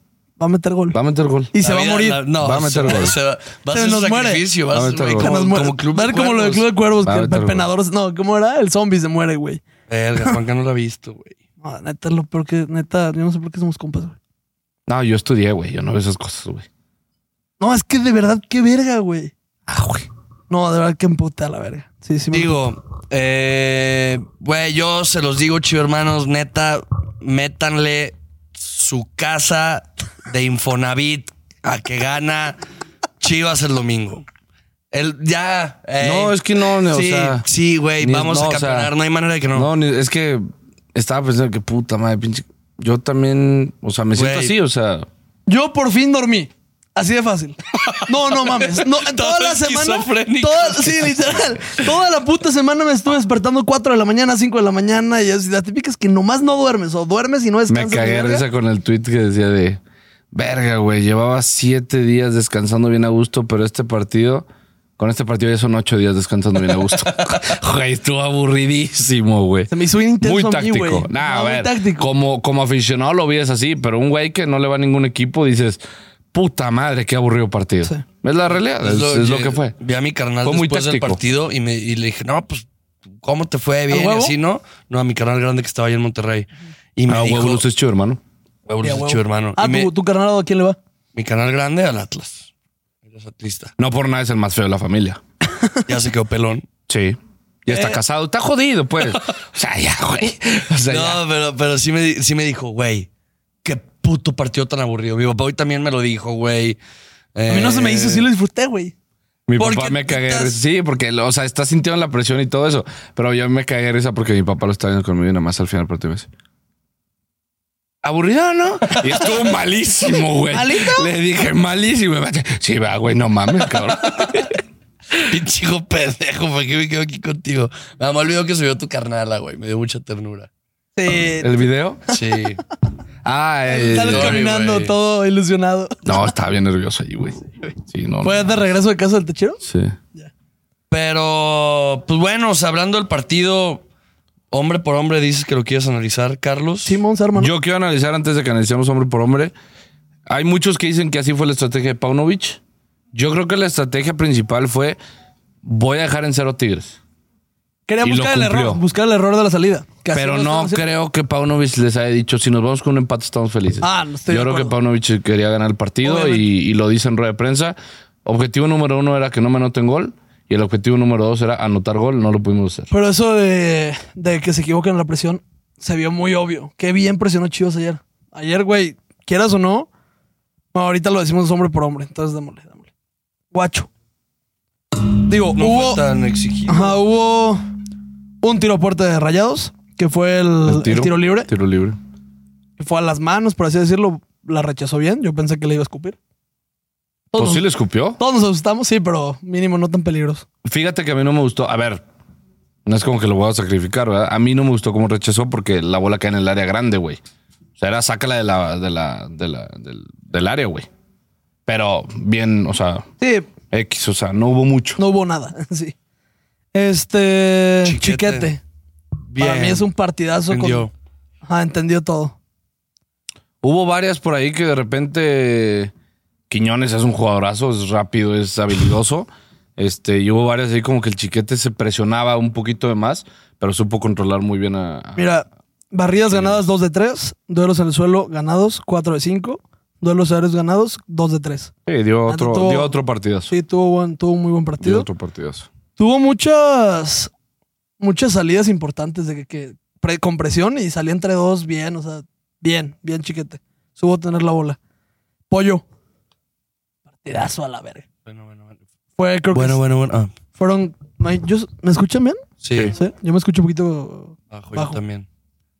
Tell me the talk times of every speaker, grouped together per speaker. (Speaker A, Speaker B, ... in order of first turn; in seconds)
Speaker A: 0.4-1.0, 1.5-2.2, 3.7-4.4, 5.2-9.6, 11.6-14.2, 17.6-19.3, 20.5-22.6, 45.5-58.4, 69.7-72.1, 83.9-84.3, 88.8-90.8, 97.7-98.0, 107.5-108.9, 120.5-121.1, 130.9-132.1, 133.7-136.2, 138.2-139.6, 146.8-147.5, 157.9-160.8, 163.8-164.7, 166.0-166.4, 172.9-179.9, 180.7-182.9, 183.5-183.9, 185.2-186.0, 186.7-187.6, 188.4-191.5, 192.8-196.2, 197.3-197.6, 198.2-200.4, 213.2-213.5, 215.0-215.9, 216.7-218.6, 219.4-220.9, 221.4-222.3, 235.2-241.7, 242.3-242.9, 243.5-245.1, 246.0-247.3, 248.0-254.8, 255.5-255.8, 257.2-258.1, 259.2-259.8, 260.6-262.4, 262.9-265.0
Speaker B: 0.9-1.5, 2.4-3.1, 4.7-5.3, 7.0-7.7, 14.9-16.7, 19.7-20.1, 36.0-37.4, 38.0-38.9, 39.5-45.1, 57.7-59.8, 60.3-64.5, 65.0-75.8, 76.3-79.7, 80.4-81.2, 87.1-88.2, 93.8-95.2, 96.9-101.2, 109.5-116.3, 118.0-124.5, 131.4-132.0, 133.2-134.4, 136.0-138.7, 139.6-139.9, 147.3-149.5, 150.3-152.6, 153.1-155.0, 155.6-157.0, 158.0-158.8, 160.1-172.9, 190.7-192.0, 197.4-198.2, 200.6-202.0, 202.8-207.2, 207.8-210.9, 211.7-213.1, 213.7-215.0, 223.6-225.9, 226.5-235.2, 236.3-236.6, 241.8-243.5, 244.8-245.7
Speaker C: 1.6-6.7, 9.9-11.3, 22.3-32.6, 33.2-34.2, 34.9-39.7, 44.1-44.5, 47.8-51.4, 78.8-82.7, 83.2-87.6, 88.7-89.9, 91.1-92.5, 93.0-93.7, 95.8-96.6, 100.9-103.1, 103.6-106.8, 107.3-108.3, 109.6-110.5, 124.1-124.4, 125.2-130.5, 132.1-132.6, 134.0-134.9, 140.9-143.8, 144.5-147.0, 185.6-187.0, 217.8-218.5, 219.3-219.9, 220.5-220.9, 258.2-258.8, 259.5-260.3, 262.6-262.9, 264.5-265.2